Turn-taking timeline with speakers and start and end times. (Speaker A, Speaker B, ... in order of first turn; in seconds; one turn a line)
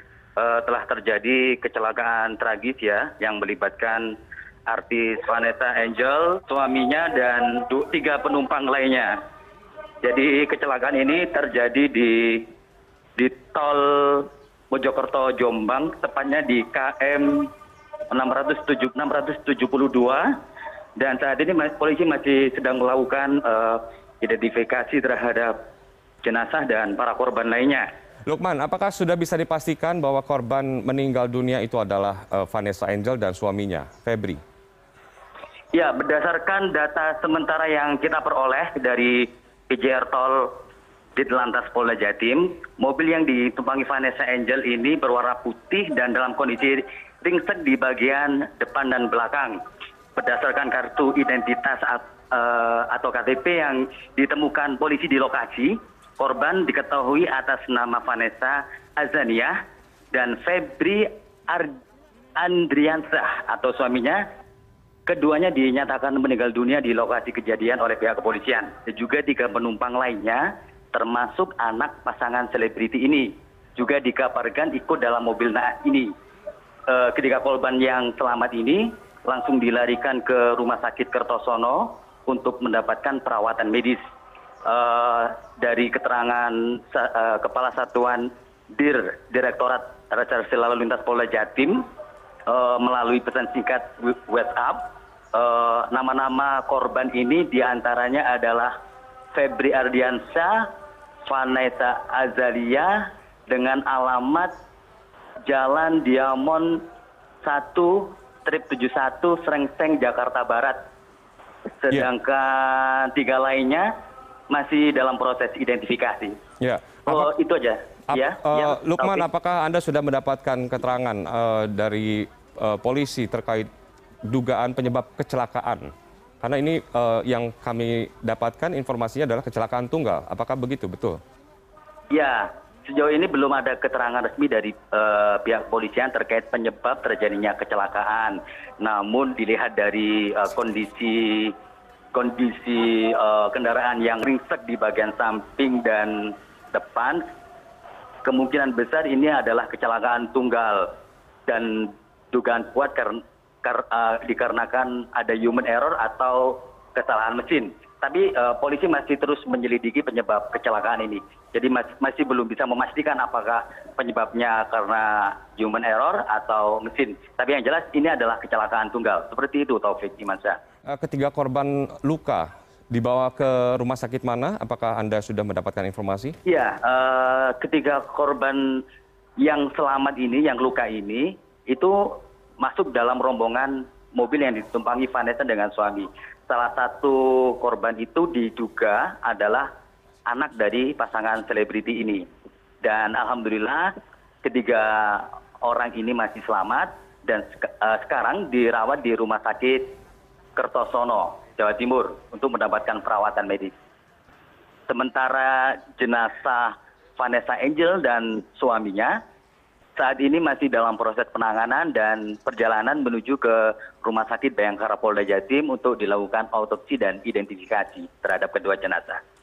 Speaker A: 0.4-4.1
Speaker A: 4.7-9.2
Speaker A: 10.0-12.5
Speaker A: 13.2-17.5
Speaker A: 18.1-20.3
Speaker A: 21.0-25.6
Speaker A: 26.2-27.9
Speaker B: 28.3-34.4
Speaker A: 35.7-40.5
Speaker A: 41.2-49.6
Speaker A: 50.2-59.6
Speaker A: 60.1-61.8
Speaker A: 62.4-64.2
Speaker A: 65.1-76.1
Speaker A: 76.9-84.0
Speaker A: 84.6-91.8
Speaker A: 92.5-94.8
Speaker A: 95.3-98.7
Speaker A: 99.3-100.7
Speaker A: 101.2-104.5
Speaker A: 105.5-106.8
Speaker A: 107.4-110.8
Speaker A: 111.8-113.9
Speaker A: 114.5-116.3
Speaker B: 116.6-117.3
Speaker A: 117.1-119.3
Speaker B: 118.1-123.7
Speaker B: 124.3-131.2
Speaker A: 132.1-141.6
Speaker A: 142.1-147.2
Speaker A: 148.2-150.9
Speaker A: 151.5-170.6
Speaker B: 170.9-176.4
Speaker A: 176.5-178.8
Speaker A: 179.4-189.7
Speaker A: 190.3-192.2
Speaker A: 192.8-193.9
Speaker A: 194.4-199.9
Speaker A: 200.6-203.8
Speaker A: 204.9-209.2
Speaker A: 210.0-219.2